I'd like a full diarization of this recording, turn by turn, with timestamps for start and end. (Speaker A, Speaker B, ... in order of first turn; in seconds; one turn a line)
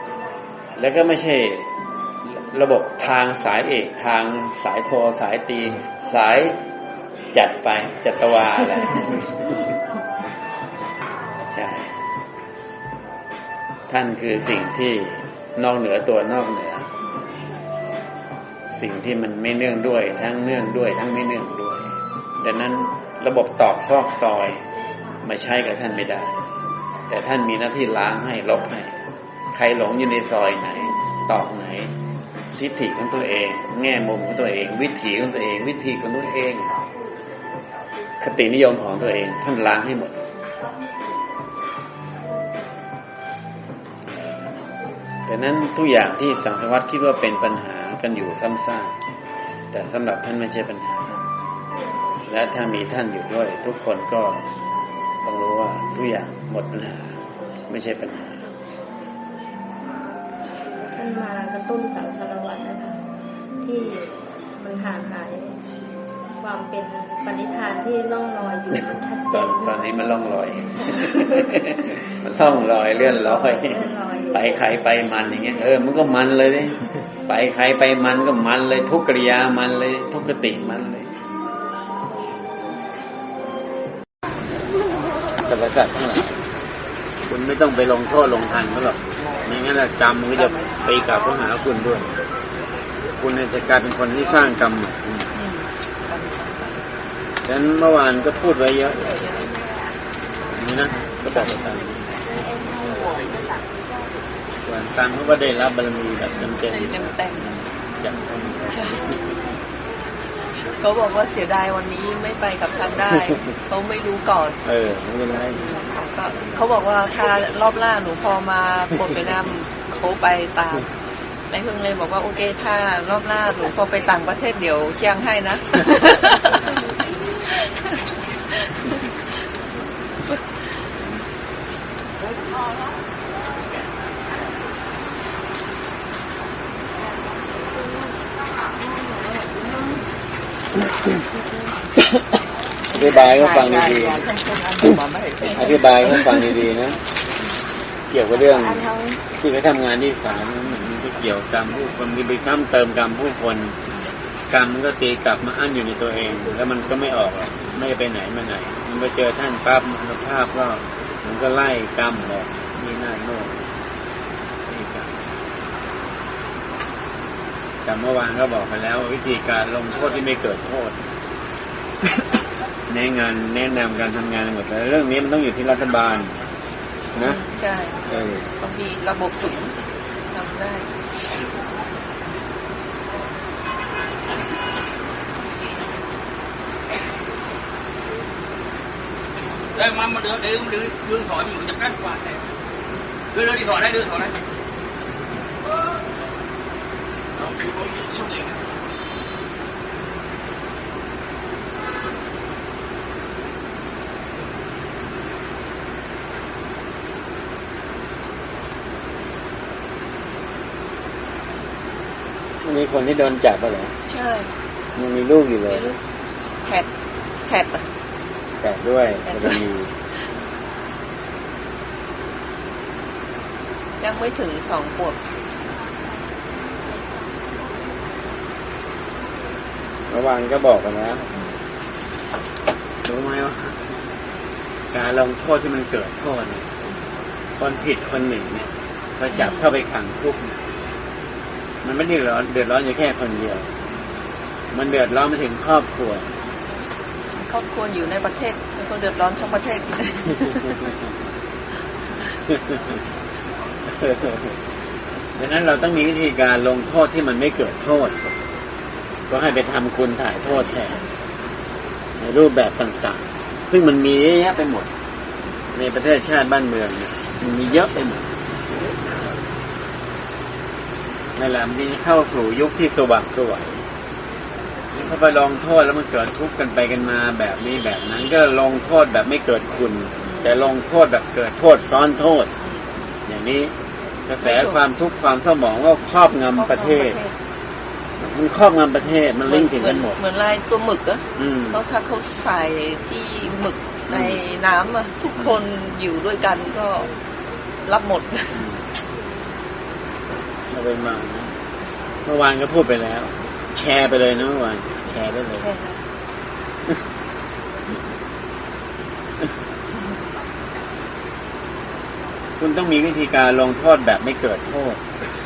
Speaker A: 0.8-1.7
Speaker A: 2.2-6.6
Speaker A: 7.3-9.7
Speaker A: 11.5-11.9
Speaker A: 13.9-16.9
Speaker A: 18.8-24.6
Speaker A: 25.2-26.4
Speaker A: 27.1-28.9
Speaker A: 29.5-31.9
Speaker A: 32.6-36.8
Speaker A: 38.2-40.2
Speaker A: 45.3-49.0
Speaker A: 49.7-51.2
Speaker A: 52.3-54.5
Speaker A: 55.2-58.5
Speaker B: 60.9-63.0
Speaker B: 63.6-65.6
Speaker B: 66.4-69.8
Speaker A: 69.3-81.1
Speaker B: 70.9-71.6
Speaker B: 72.9-74.7
Speaker A: 85.5-86.4
Speaker A: 87.3-92.1
Speaker A: 93.2-95.3
Speaker C: 95.3-96.8
Speaker A: 97.5-99.2
Speaker A: 100.5-102.0
Speaker A: 104.7-109.2
Speaker C: 106.8-107.5
Speaker C: 108.7-109.0
Speaker C: 110.7-114.6
Speaker A: 114.6-115.6
Speaker C: 115.5-120.9
Speaker C: 121.5-126.8
Speaker C: 127.5-127.9
Speaker C: 128.5-129.4
Speaker A: 142.9-144.3
Speaker C: 144.3-145.6
Speaker A: 145.5-147.0
Speaker A: 148.1-153.8
Speaker A: 154.5-163.7
Speaker A: 164.7-165.1
Speaker A: 167.8-171.0
Speaker A: 172.9-176.4
Speaker A: 177.2-177.4
Speaker C: 177.2-178.0
Speaker A: 178.1-178.5
Speaker C: 178.6-179.8
Speaker C: 180.3-180.9
Speaker D: 190.0-192.0
Speaker D: 193.4-194.3
Speaker A: 212.6-213.9
Speaker C: 214.1-214.6
Speaker A: 214.9-215.9
Speaker C: 215.7-216.0
Speaker C: 217.4-217.9
Speaker A: 218.6-219.9
Speaker C: 219.3-219.6
Speaker C: 224.0-225.2
Speaker A: 230.1-231.3
Speaker A: 233.0-234.0
Speaker A: 234.9-236.7
Speaker A: 237.6-240.6
Speaker C: 239.3-239.6
Speaker A: 241.8-243.7
Speaker A: 244.7-246.3
Speaker C: 247.4-250.7
Speaker A: 253.9-254.4
Speaker A: 255.4-258.1
Speaker A: 259.3-261.0
Speaker A: 262.2-264.9
Speaker A: 265.7-268.3
Speaker A: 271.4-273.8
Speaker A: 274.9-282.5
Speaker C: 280.2-280.6
Speaker A: 283.3-283.7
Speaker A: 284.3-287.2
Speaker C: 284.4-284.8
Speaker C: 286.6-287.4
Speaker A: 288.2-290.2
Speaker C: 289.4-297.1
Speaker A: 291.4-291.8
Speaker A: 294.1-294.4
Speaker C: 297.9-298.6
Speaker A: 298.6-298.8
Speaker A: 300.7-301.5
Speaker A: 302.3-305.7
Speaker C: 305.6-306.0
Speaker A: 312.6-315.0